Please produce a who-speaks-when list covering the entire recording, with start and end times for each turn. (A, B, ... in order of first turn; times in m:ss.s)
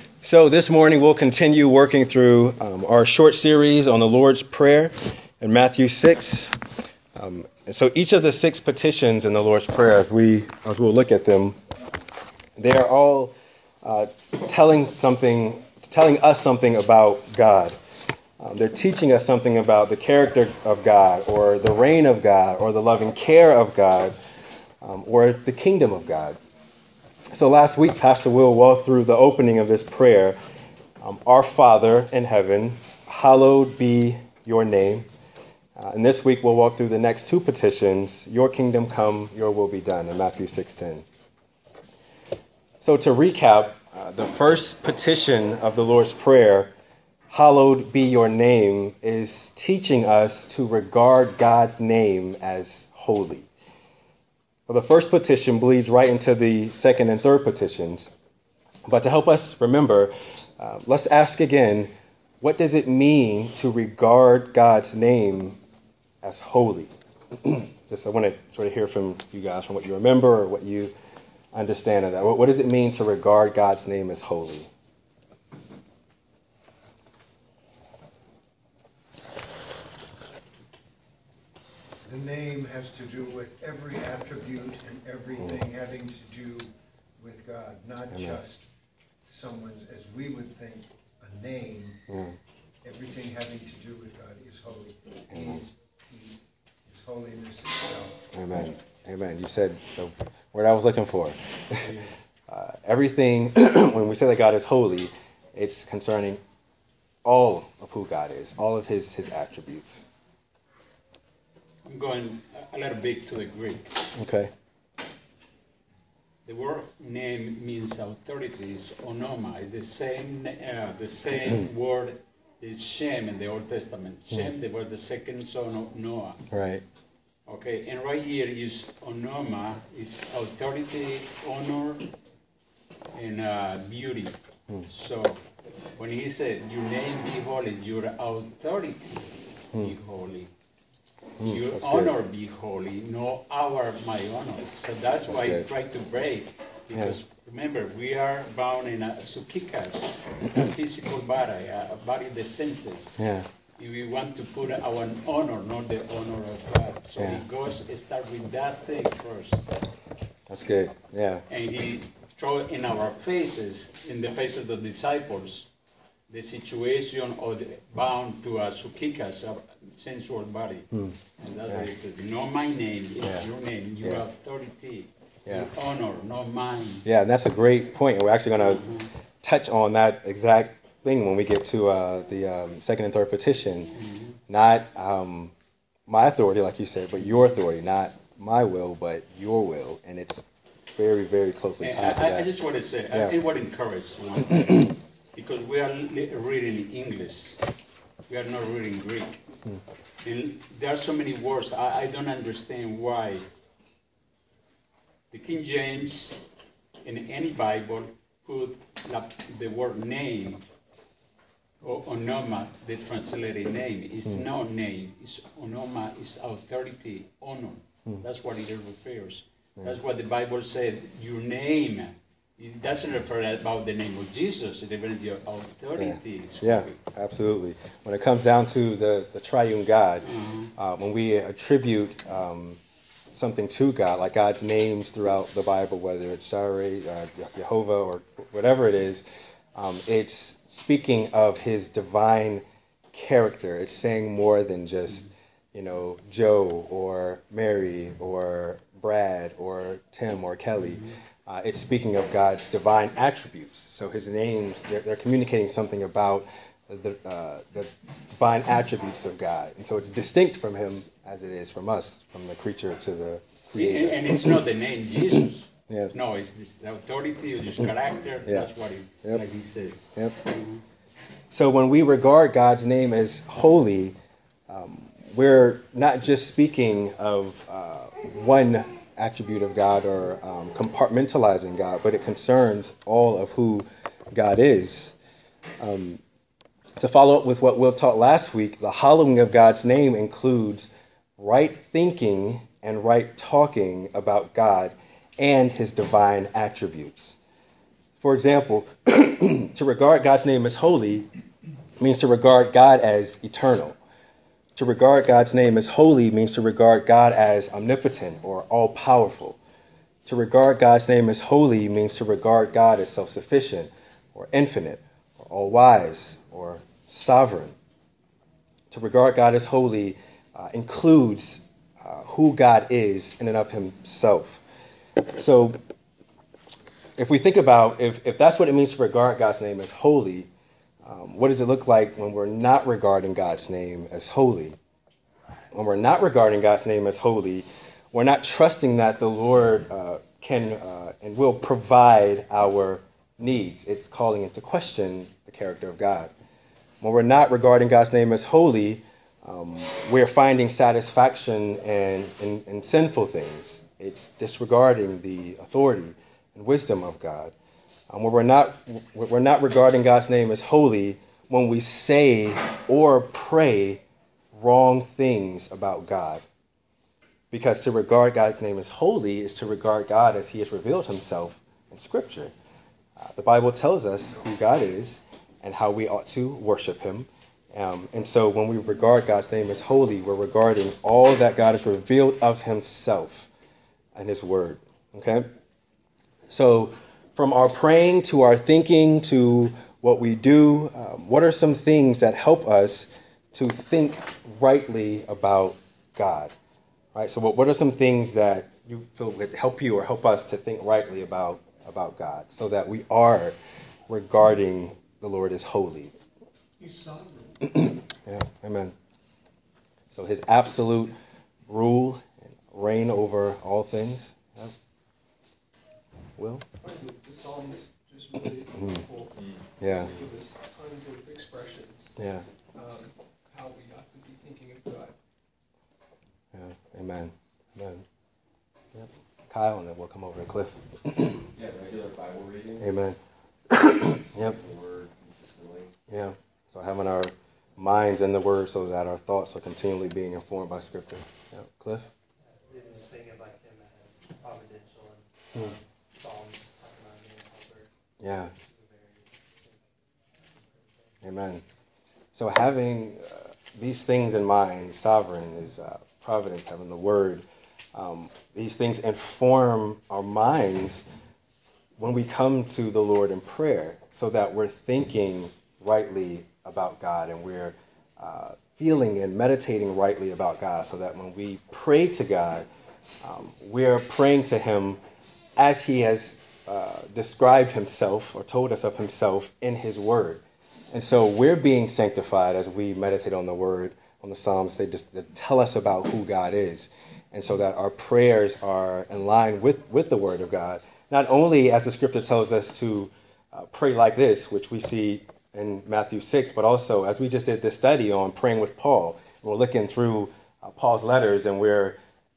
0:00.2-0:06.6 A
0:07.2-0:11.6 A
0:12.6-0:17.8 A
0:18.4-0:24.2 A
0:24.8-0:26.4 A
0:27.3-0:30.4 A
0:31.0-0:35.1 A
0:35.8-0:41.1 A
0:42.8-0:46.7 A
0:47.3-0:53.5 A
0:54.7-0:58.1 A
0:58.9-1:05.6 A
1:06.2-1:10.9 A
1:11.5-1:14.7 A
1:22.0-1:28.7 B
1:25.4-1:25.6 A
1:28.1-1:28.4 A
1:29.3-1:32.0 B
1:32.1-1:32.4 A
1:32.8-1:38.2 B
1:35.3-1:35.6 A
1:38.3-1:42.0 A
1:42.5-1:46.4 A
1:47.2-1:50.1 A
1:51.8-1:54.0 C
1:54.2-1:54.5 A
1:56.4-2:06.4 C
2:06.5-2:06.8 A
2:07.5-2:12.0 C
2:13.1-2:14.4 C
2:14.9-2:15.4 C
2:16.0-2:20.5 C
2:21.4-2:22.1 A
2:21.4-2:39.7 C
2:25.3-2:25.7 A
2:33.2-2:33.5 A
2:37.2-2:37.4 A
2:40.5-2:41.4 A
2:41.5-2:45.7 C
2:46.3-2:50.9 C
2:50.9-2:51.2 A
2:51.4-2:57.1 C
2:57.0-2:58.9 A
2:58.8-2:59.1 C
2:59.4-3:03.9 A
3:04.0-3:04.4 C
3:04.5-3:05.5 A
3:06.1-3:10.4 A
3:11.0-3:12.5 A
3:11.8-3:17.6 C
3:18.3-3:19.4 C
3:20.2-3:23.5 C
3:25.3-3:26.4 C
3:27.0-3:30.6 C
3:31.8-3:47.0 C
3:46.0-3:52.8 A
3:50.2-3:50.7 C
3:53.3-4:24.6 A
4:23.7-4:30.8 C
4:25.4-4:26.1 A
4:31.5-4:34.2 A
4:34.7-4:45.2 A
4:45.8-4:46.2 A
4:47.0-4:57.4 A
4:58.2-5:01.3 A
5:02.0-5:04.0 A
5:04.8-5:09.6 A
5:10.2-5:17.8 A
5:18.9-5:24.6 A
5:25.2-5:25.8 A
5:27.2-5:30.5 A
5:31.0-5:34.8 A
5:35.7-5:46.3 A
5:47.0-5:57.5 A
5:58.1-6:04.0 A
6:04.5-6:06.4 A
6:07.5-6:12.5 A
6:13.2-6:23.5 A
6:24.2-6:25.5 A
6:26.5-6:36.5 A
6:37.2-6:43.6 A
6:44.1-6:46.1 A
6:46.8-6:47.8 B
6:47.7-6:48.9 A
6:50.1-6:51.1 A
6:51.7-6:54.7 A
6:56.4-6:56.6 A
6:56.8-7:02.2 D
6:59.3-6:59.7 E
6:59.8-7:00.1 A
7:02.2-7:02.4 A
7:02.7-7:05.2 D
7:06.5-7:08.0 A
7:09.0-7:11.4 A
7:11.6-7:12.9 E
7:12.8-7:13.2 A
7:13.7-7:14.6 A
7:14.3-7:15.9 E
7:16.1-7:22.1 A
7:22.5-7:27.9 F
7:28.2-7:28.5 A
7:28.5-7:31.2 F
7:31.2-7:31.6 A
7:32.3-7:41.0 A
7:42.0-7:52.7 A
7:53.2-7:55.0 A
7:55.6-8:22.0 A